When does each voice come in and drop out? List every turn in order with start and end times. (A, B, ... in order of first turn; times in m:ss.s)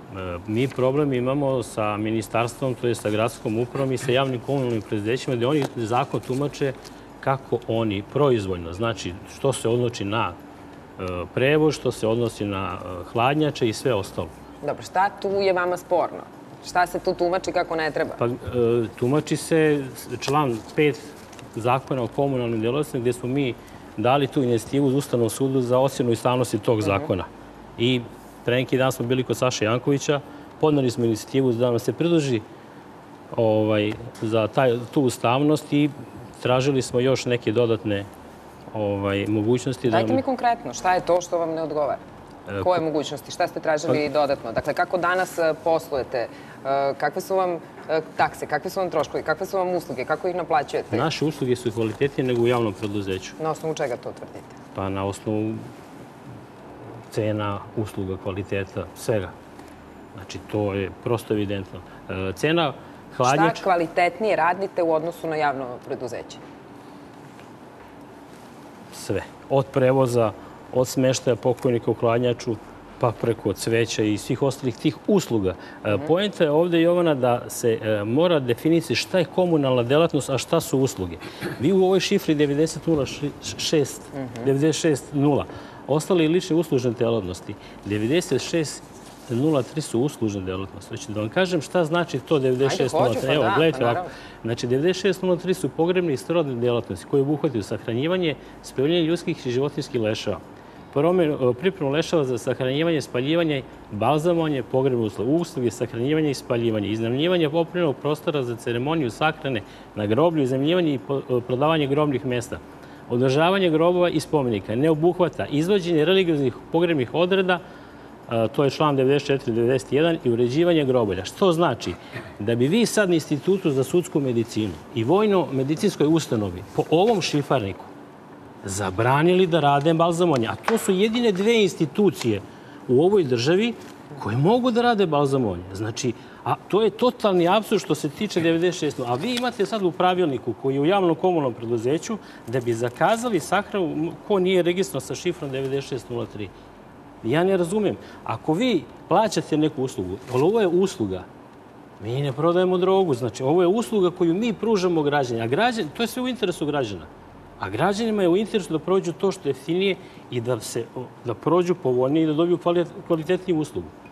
0:00.1-0:10.4 A
0:11.0-0:14.3 A
0:14.6-0:18.2 B
0:18.2-0:32.4 A
0:26.8-0:27.1 B
0:33.3-0:38.1 A
0:38.7-0:40.2 A
0:39.9-0:42.0 B
0:42.5-0:42.8 A
0:42.6-0:51.1 B
0:50.9-0:53.4 A
0:53.4-0:54.5 B
0:54.8-0:55.7 A
0:57.1-0:59.3 A
1:00.2-1:03.6 A
1:03.2-1:06.4 B
1:08.9-1:40.4 A
1:24.2-1:24.5 B
1:32.6-1:34.1 B
1:40.9-1:57.6 A
1:58.3-2:07.9 A
2:08.6-2:26.5 A
2:27.2-2:31.3 A
2:32.0-2:37.1 A
2:37.6-2:43.9 A